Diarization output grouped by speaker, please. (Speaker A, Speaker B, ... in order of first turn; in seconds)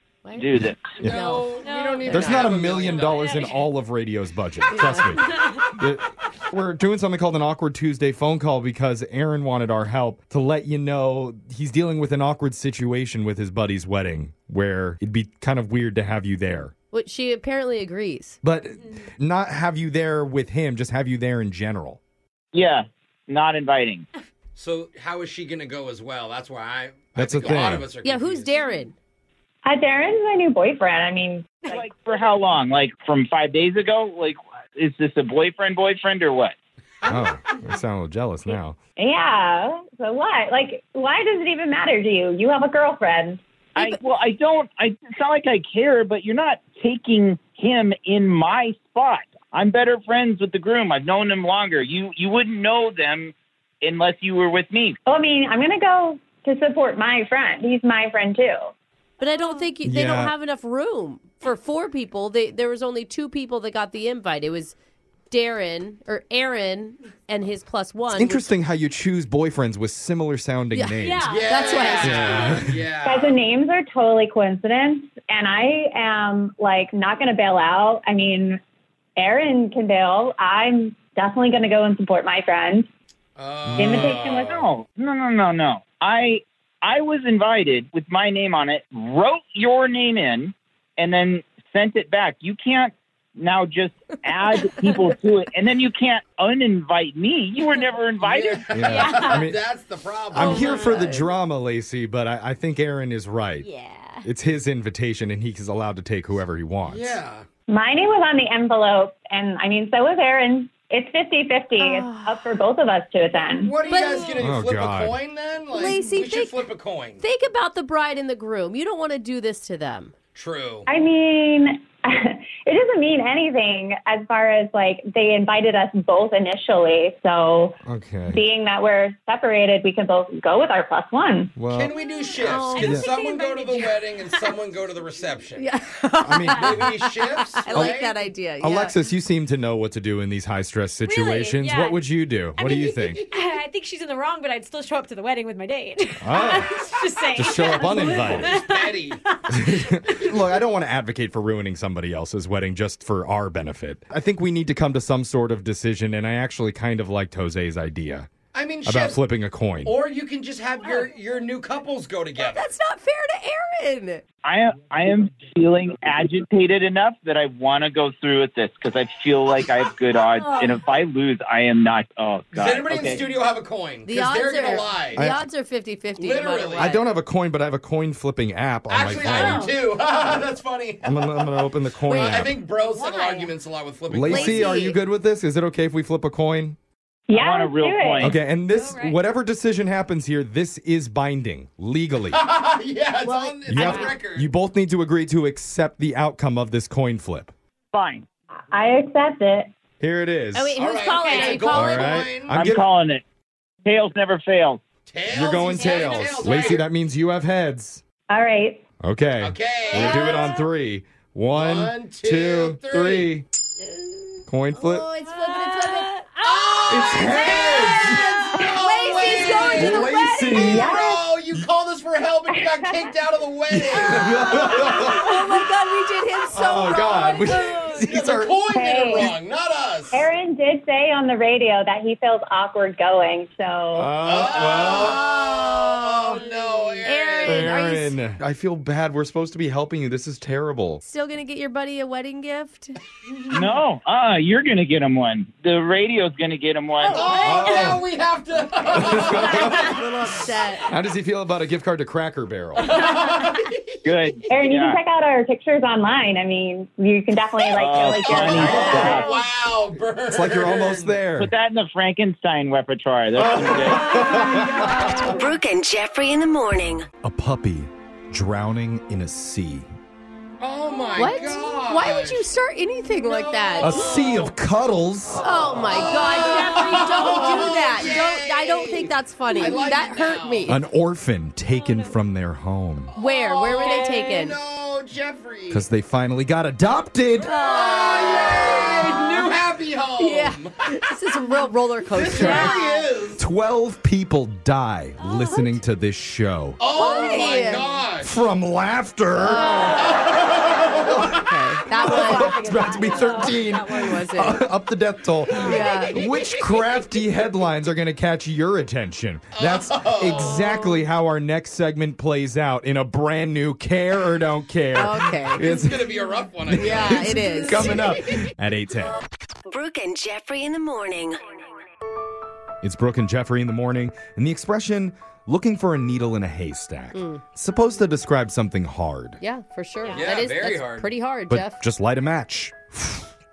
Speaker A: 0.2-2.5, 4.7-5.2, 16.9-18.4, 27.6-28.9, 59.2-64.7, 65.3-68.5, 70.7-72.5, 100.4-101.3, 111.8-112.5, 113.8-114.3, 115.7-116.7, 117.2-120.1, 132.4-133.1, 135.6-138.9, 162.4-164.2, 174.0-177.0, 182.1-182.5, 184.2-185.0, 193.2-194.1, 200.5-202.3, 214.7-216.2, 218.6-221.0, 224.6-228.1, 237.0-238.2, 241.0-243.0, 247.1-247.6, 249.0-250.9, 258.8-259.1, 271.1-274.2, 275.4-280.8, 283.1-284.6, 287.4-289.5, 290.2-293.0, 296.9-297.9, 299.3-300.4, 301.1-304.7, 305.5-306.2, 314.9-315.6, 316.7-318.0, 327.1-327.4, 329.4-331.8
Speaker B: 0.3-1.0, 22.5-24.1, 31.7-36.5, 43.8-55.0, 83.9-98.7, 164.4-173.3, 187.3-188.4, 197.9-198.2, 202.5-203.2, 203.8-204.8, 243.5-247.2, 254.0-255.0, 257.7-259.3, 261.4-264.2
Speaker C: 1.0-1.3, 2.1-16.7, 18.4-22.0, 27.1-27.9, 37.0-38.8, 59.8-60.3, 68.1-71.3, 72.0-72.8, 83.7-84.2, 98.7-99.6, 100.3-103.7, 104.2-107.2, 114.4-115.2, 127.8-128.4, 131.6-131.9, 132.8-133.1, 136.2-136.9, 137.7-138.0, 138.6-143.2, 146.2-148.6, 149.5-158.3, 158.8-159.9, 175.2-175.4, 176.8-179.7, 181.0-182.6, 184.1-186.8, 188.2-192.4, 193.7-197.5, 200.0-200.7, 201.7-202.8, 205.3-208.0, 209.0-213.4, 214.5-215.1, 216.9-218.3, 219.7-220.9, 223.7-225.3, 226.5-228.6, 233.9-235.2, 237.4-241.0, 247.4-248.0, 248.9-250.1, 250.9-253.1, 260.3-261.5, 263.4-265.1, 267.2-269.9, 273.8-275.5, 280.7-283.1, 285.7-287.5, 292.3-292.7, 293.4-296.8, 298.2-299.8, 301.0-319.1, 322.8-329.4, 331.5-333.3
Speaker D: 1.0-3.4, 24.6-28.5, 37.0-37.3, 71.2-73.4, 83.4-84.7, 98.2-100.9, 106.8-107.4, 113.6-117.2, 120.3-120.9, 131.7-135.7, 136.5-138.2, 147.9-149.2, 158.5-159.2, 159.8-162.7, 172.5-175.2, 176.2-176.9, 178.9-184.8, 192.3-194.5, 200.8-202.6, 205.1-206.8, 209.4-210.5, 211.5-213.3, 216.4-224.9, 228.0-230.3, 234.2-237.8, 247.1-250.0, 252.8-253.8, 258.2-261.2, 263.6-264.4, 270.6-272.4, 273.2-274.5, 275.4-280.8, 283.1-285.8, 287.5-290.8, 292.1-293.4, 296.8-298.4, 299.9-301.4, 305.8-307.0, 309.5-310.6, 315.6-318.4, 330.1-331.1
Speaker E: 1.6-3.6, 5.3-5.6, 59.2-59.7, 71.0-72.5, 98.8-99.5, 100.4-100.9, 103.6-104.2, 113.9-114.3, 131.9-134.5, 141.1-142.0, 142.6-150.3, 170.3-170.8, 179.2-179.8, 182.8-183.5, 188.5-189.2, 201.2-201.7, 205.8-206.6, 209.9-210.6, 213.8-214.4, 215.2-220.7, 225.2-225.6, 227.5-227.8, 236.4-237.0, 247.1-247.9, 258.9-259.3, 276.2-277.8, 281.7-282.1, 283.7-284.2, 292.3-293.0, 295.2-295.6, 297.0-297.8, 299.7-300.1, 301.9-304.2, 305.5-305.9, 330.0-330.3
Speaker F: 29.6-31.7, 39.0-43.4, 55.0-58.7, 73.0-78.6, 79.2-82.9, 83.8-84.4, 107.7-113.8, 120.9-131.5, 187.3-188.3, 198.7-199.7, 208.3-208.8, 220.6-221.2, 228.7-229.3, 230.1-234.1, 254.5-259.1
Speaker G: 265.3-267.1, 319.7-321.4